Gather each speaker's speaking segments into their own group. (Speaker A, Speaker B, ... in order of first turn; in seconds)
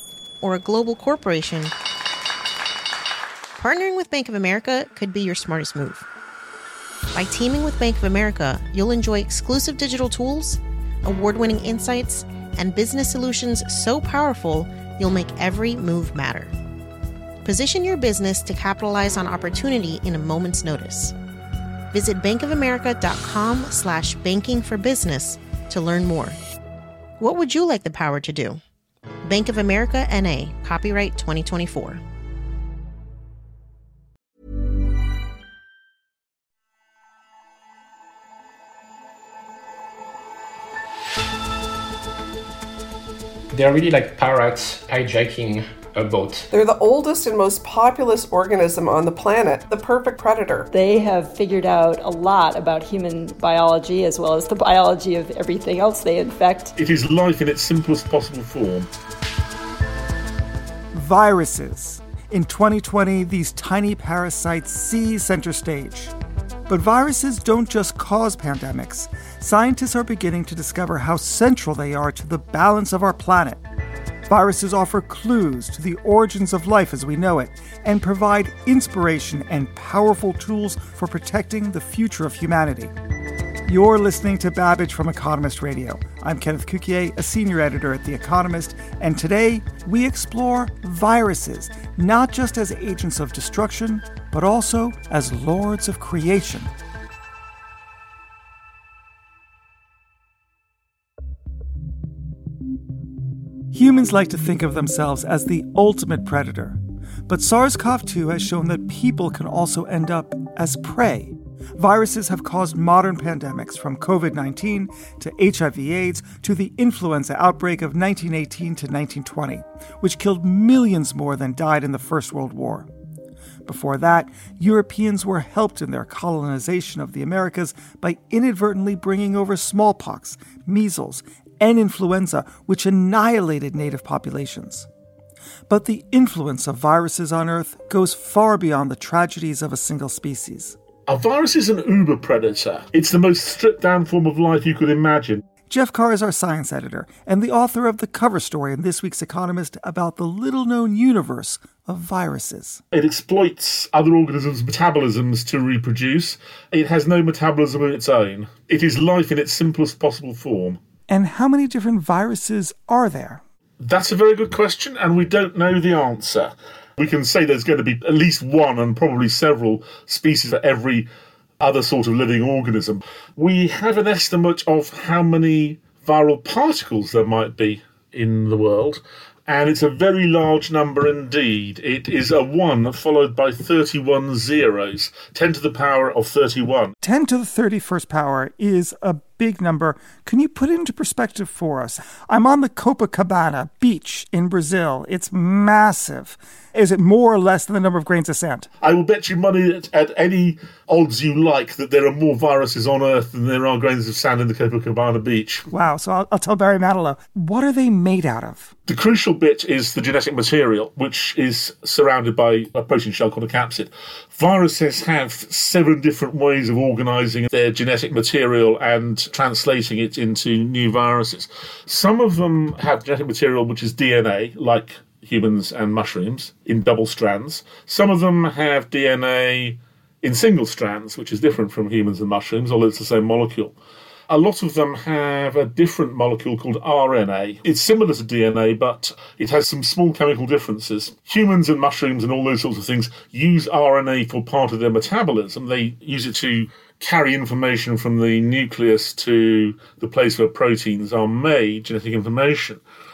Speaker A: 0.4-1.7, 3.6-6.1, 7.1-16.5, 17.4-21.1, 21.9-26.4, 27.2-28.6, 29.2-32.0
Speaker B: 43.5-46.5
Speaker C: 46.5-50.7
Speaker D: 50.7-56.7
Speaker E: 56.8-58.9, 141.1-145.4, 152.9-160.8, 163.8-171.1, 171.6-186.9, 198.8-205.7, 208.9-233.8, 234.3-252.8
Speaker F: 60.9-66.1, 66.7-73.6, 74.3-82.9, 83.7-96.7, 103.7-122.9, 123.7-134.9, 135.7-140.8, 145.7-152.8, 161.1-163.4, 187.0-198.7, 205.7-208.7